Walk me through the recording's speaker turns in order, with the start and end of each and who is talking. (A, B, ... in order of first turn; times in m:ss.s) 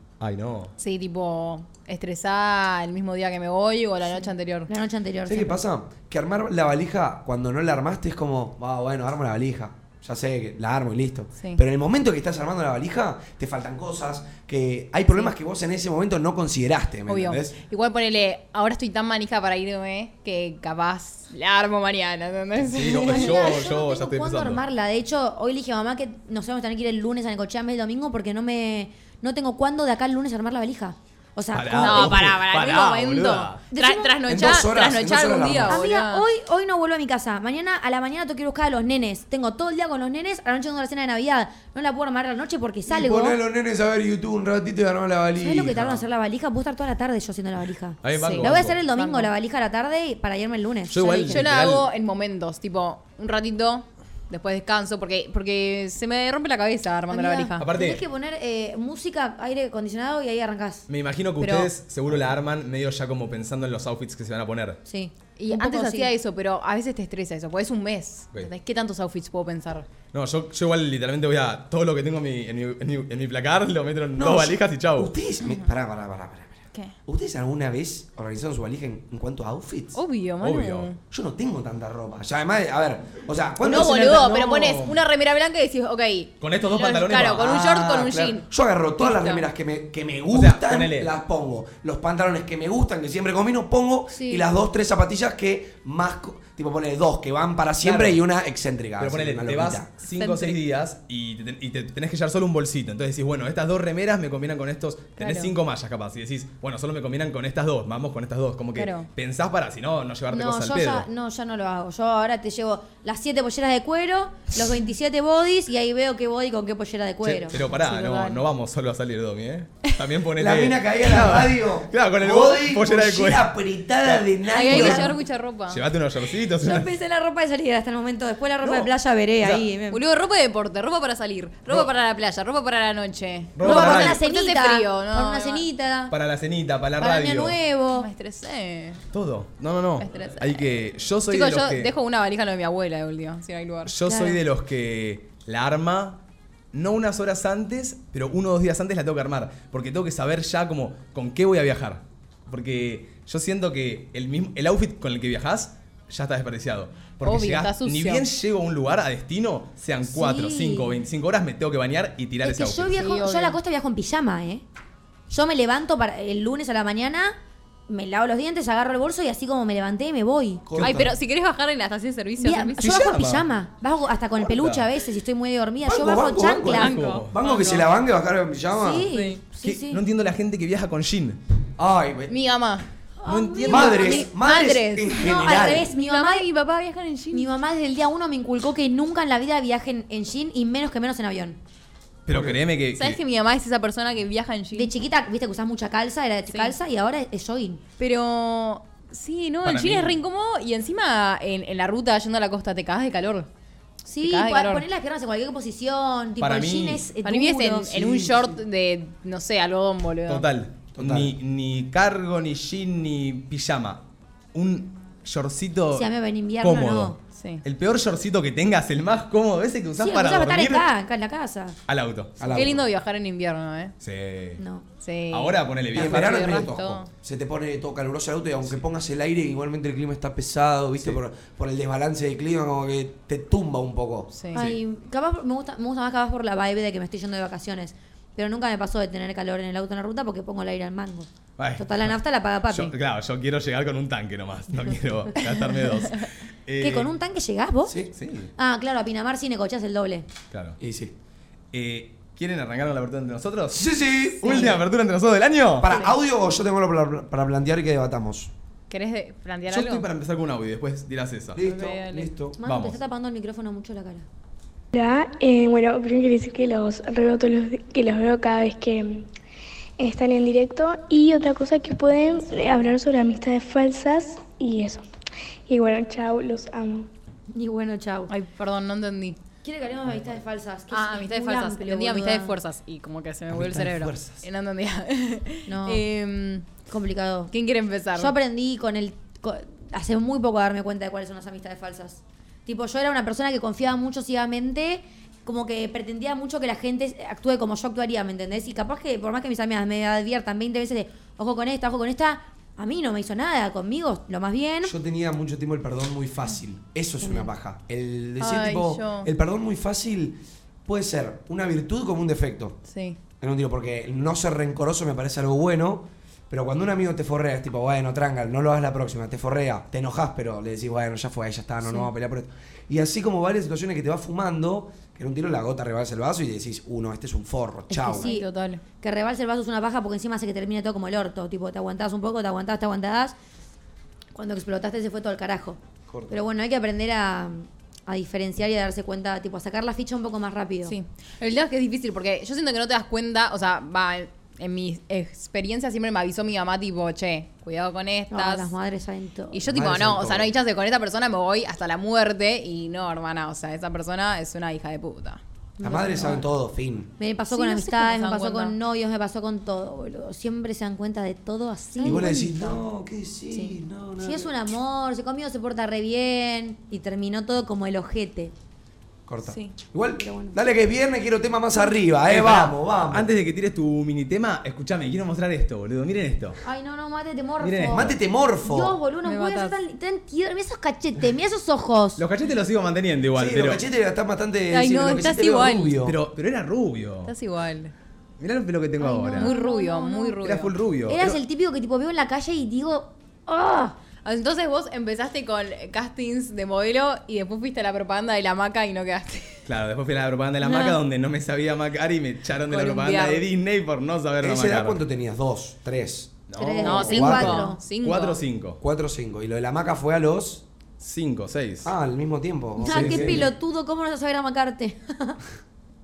0:00.2-0:00.7 A
0:00.8-0:04.7 B
0:04.7-0:05.6 C
0:05.3-0:17.5 D
0:17.1-0:23.6 B
0:22.6-0:24.6 A
0:23.0-0:32.2 C
0:31.5-0:33.6 A
0:31.8-0:36.3 B
0:33.7-0:34.1 C
0:34.3-0:35.8 D
0:35.7-0:43.4 C
0:42.9-0:46.0 D
0:45.4-0:51.4 C
0:48.0-0:48.8 A
0:48.2-0:49.3 B
0:50.9-0:51.9 A
0:51.3-0:57.6 B
0:57.1-1:00.9 C
0:57.6-0:58.0 A
1:00.9-1:04.8 A
1:01.4-1:01.7 B
1:04.9-1:06.1 C
1:05.4-1:09.9 B
1:10.1-1:15.1 A
1:14.2-1:20.0 D
1:19.9-1:21.0 B
1:20.4-1:20.9 A
1:21.1-1:24.4 D
1:23.6-1:28.5 B
1:23.6-1:25.0 A
1:26.4-1:27.5 A
1:27.4-1:39.9 D
1:29.0-1:29.4 B
1:30.3-1:31.1 A
1:37.8-1:38.2 A
1:39.0-1:51.1 A
1:40.0-1:40.6 B
1:45.2-1:45.5 B
1:48.8-1:49.1 B
1:50.3-1:57.6 C
1:57.2-2:05.0 A
1:57.7-1:58.4 B
2:00.4-2:05.1 D
2:04.5-2:05.8 B
2:04.7-2:05.1 C
2:05.7-2:06.9 A
2:06.6-2:10.0 C
2:08.6-2:09.7 A
2:09.9-2:15.7 B
2:13.6-2:14.2 A
2:13.6-2:16.1 C
2:16.1-2:17.6 A
2:17.0-2:18.1 C
2:17.9-2:19.0 B
2:19.1-2:21.9 A
2:20.0-2:20.7 B
2:21.3-2:23.9 B
2:23.9-2:26.2 A
2:24.1-2:24.4 C
2:26.7-2:43.0 A
2:37.2-2:38.2 B
2:40.1-2:41.0 C
2:42.4-2:44.6 C
2:42.9-2:43.6 B
2:45.3-2:47.4 C
2:47.9-2:50.6 C
2:50.7-2:51.1 D
2:50.8-2:52.9 B
2:52.4-2:57.0 C
2:52.8-2:53.5 A
2:54.4-2:54.9 A
2:55.8-2:59.1 D
2:56.6-2:57.3 A
2:56.7-2:57.9 B
2:58.7-3:00.0 C
2:59.1-2:59.4 B
2:59.6-3:01.4 A
3:01.8-3:02.3 D
3:02.3-3:02.9 B
3:03.2-3:04.3 C
3:03.3-3:04.1 A
3:03.7-3:07.5 B
3:03.7-3:05.9 D
3:05.2-3:06.5 C
3:07.3-3:11.6 C
3:12.3-3:13.2 A
3:12.3-3:12.6 D
3:13.0-3:14.9 B
3:14.7-3:17.8 C
3:16.5-3:16.8 B
3:18.0-3:23.5 B
3:19.6-3:20.2 A
3:24.0-3:28.2 C
3:24.2-3:24.8 B
3:26.4-3:27.1 A
3:27.2-3:30.5 B
3:28.0-3:28.4 D
3:30.3-3:40.9 A
3:31.0-3:31.3 D
3:35.9-3:37.2 C
3:37.4-3:37.6 B
3:40.0-3:41.8 C
3:41.9-3:42.6 A
3:42.4-3:42.8 D
3:42.6-3:43.9 B
3:44.0-3:44.6 A
3:44.6-3:44.8 C
3:45.0-3:47.1 B
3:45.3-3:46.6 A
3:45.9-3:54.3 D
3:54.3-3:54.7 B
3:54.5-4:02.9 C
4:01.6-4:02.2 A
4:02.7-4:07.1 A
4:06.8-4:08.0 C
4:07.9-4:08.1 D
4:08.1-4:08.5 A
4:08.6-4:10.3 C
4:10.5-4:10.8 A
4:10.8-4:11.2 D
4:11.7-4:13.9 A
4:13.7-4:14.7 D
4:14.4-4:15.9 A
4:14.4-4:14.7 B
4:15.8-4:18.5 D
4:18.9-4:20.1 B
4:19.7-4:21.6 A
4:21.6-4:22.6 D
4:21.6-4:22.3 B
4:22.6-4:24.3 C
4:22.6-4:23.0 A
4:24.9-4:29.3 E
4:30.0-4:35.1 E
4:35.7-4:37.1 E
4:37.5-4:38.3 C
4:38.3-4:39.4 B
4:39.6-4:42.6 C
4:40.9-4:46.7 B
4:43.5-4:44.4 D
4:45.7-4:46.0 C
4:46.9-4:47.5 C
4:47.5-4:48.3 B
4:48.2-5:04.9 C
5:04.8-5:12.8 D
5:07.2-5:07.5 C
5:08.4-5:09.3 B
5:12.9-5:13.2 B
5:13.4-5:28.3 D
5:27.9-5:28.5 C
5:28.1-5:28.8 B
5:29.0-5:33.4 C
5:34.3-5:41.0 C
5:36.1-5:36.4 D
5:40.9-5:48.7 B
5:48.3-5:49.6 C
5:49.5-5:55.4 B
5:49.7-5:50.5 D
5:55.8-5:56.5 C
5:55.8-5:57.1 D
5:57.2-6:02.8 C
5:57.5-5:58.8 B
6:02.0-6:02.4 B
6:02.0-6:04.6 D
6:03.5-6:08.5 C
6:09.3-6:13.3 D
6:09.5-6:09.8 B
6:10.2-6:10.6 C
6:12.3-6:16.6 A
6:16.6-6:18.1 C
6:17.6-6:18.2 A
6:17.9-6:19.0 D
6:18.6-6:22.2 C
6:19.2-6:19.8 B
6:22.2-6:23.8 A
6:23.4-6:26.2 D
6:24.7-6:25.9 B
6:26.0-6:27.3 A
6:27.3-6:27.9 B
6:28.4-6:29.5 A
6:29.0-6:30.4 C
6:29.3-6:30.7 B
6:30.4-6:31.4 A
6:31.1-6:34.0 C
6:34.2-6:39.6 B
6:39.7-6:45.0 A
6:40.6-6:41.0 C
6:42.7-6:43.4 B
6:44.4-6:47.6 D
6:46.5-6:48.8 A
6:46.6-6:47.8 C
6:46.8-6:48.4 B
6:48.8-6:50.6 D
6:51.0-6:51.9 A
6:51.8-6:53.5 D
6:52.8-6:55.4 C
6:52.8-6:53.5 A